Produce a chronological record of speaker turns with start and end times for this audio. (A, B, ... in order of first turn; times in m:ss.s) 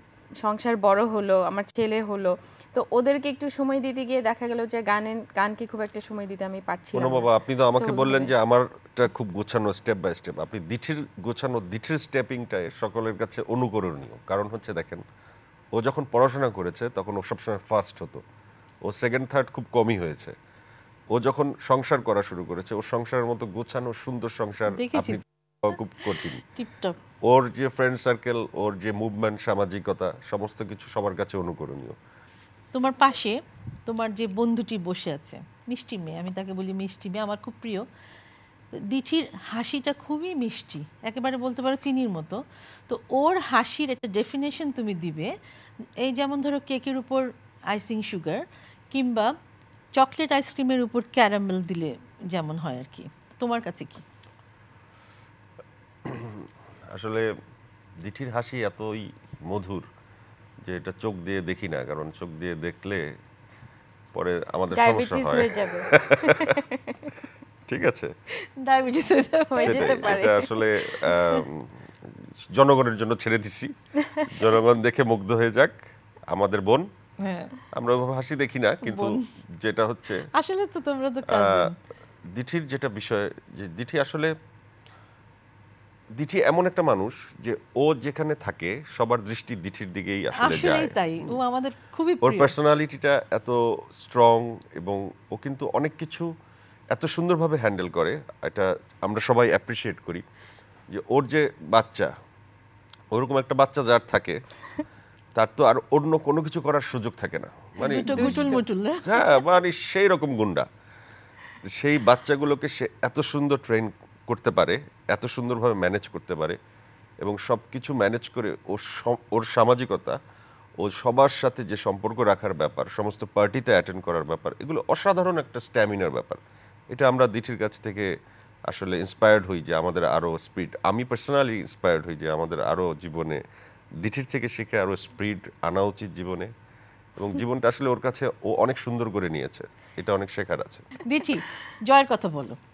0:00.4-0:08.3 A
0:06.9-0:15.0 B
0:15.7-0:18.2 B
0:18.8-0:20.3 B
0:21.1-0:26.4 B
0:24.7-0:27.0 C
0:27.3-0:32.0 B
0:32.7-0:33.4 C
0:33.9-0:37.8 C
0:38.7-0:45.3 C
0:46.0-0:49.3 C
0:50.0-0:54.0 C
0:56.0-0:57.2 B
0:58.0-0:59.8 B
1:00.6-1:03.0 B
1:04.1-1:06.5 B
1:04.7-1:07.1 A
1:07.7-1:08.1 B
1:08.6-1:10.3 C
1:09.5-1:11.4 A
1:09.6-1:11.8 B
1:12.5-1:13.7 B
1:14.2-1:15.8 B
1:16.3-1:16.9 B
1:17.2-1:17.5 C
1:17.7-1:20.2 B
1:18.8-1:19.2 C
1:20.3-1:21.8 C
1:21.3-1:21.7 B
1:22.3-1:24.3 B
1:26.2-1:31.4 B
1:30.4-1:32.5 C
1:32.2-1:36.3 B
1:36.9-1:40.2 B
1:40.9-1:42.1 B
1:43.1-1:44.4 B
1:45.4-1:50.7 B
1:47.8-1:48.5 A
1:47.8-1:49.4 C
1:51.6-1:56.6 B
1:57.2-2:00.2 B
2:00.8-2:06.4 B
2:06.9-2:08.1 B
2:08.7-2:13.4 B
2:14.0-2:16.5 B
2:17.2-2:20.8 B
2:21.0-2:22.6 C